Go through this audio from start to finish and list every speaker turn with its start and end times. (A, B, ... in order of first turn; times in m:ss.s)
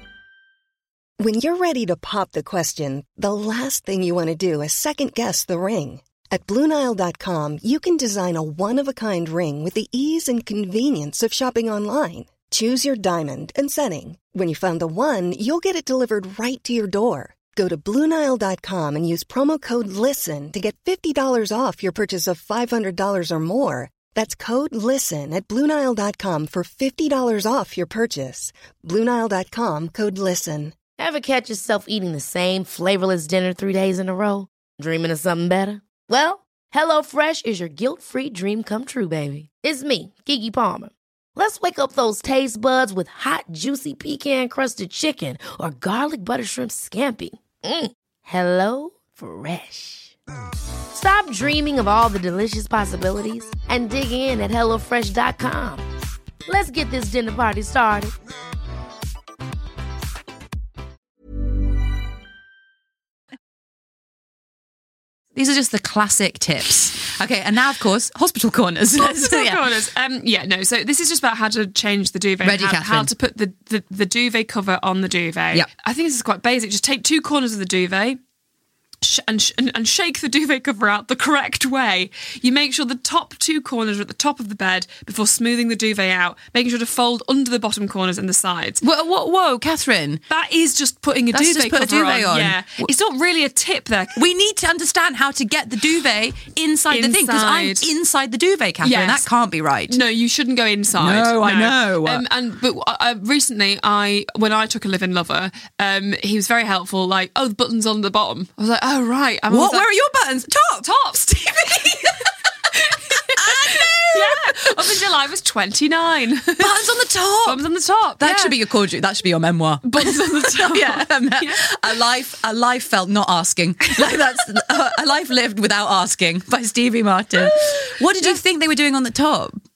0:01.2-0:30.8 A
0:31.0-0:50.2 B
0:50.9-0:55.8 B
0:56.5-0:58.1 B
1:05.4-1:09.6 C
1:09.0-1:18.2 D
1:12.4-1:13.1 C
1:19.0-1:28.8 D
1:28.8-1:30.2 C
1:30.3-1:34.2 D
1:31.3-1:32.9 C
1:34.2-1:40.0 C
1:36.9-1:37.9 D
1:38.8-1:39.2 D
1:39.9-1:49.9 D
1:41.0-1:42.2 C
1:49.5-1:50.9 C
1:50.8-1:56.8 D
1:51.7-1:52.1 C
1:53.4-1:54.8 C
1:56.6-1:57.6 C
1:57.4-1:58.6 D
1:58.2-2:09.6 C
1:59.8-2:01.7 D
2:07.4-2:08.4 D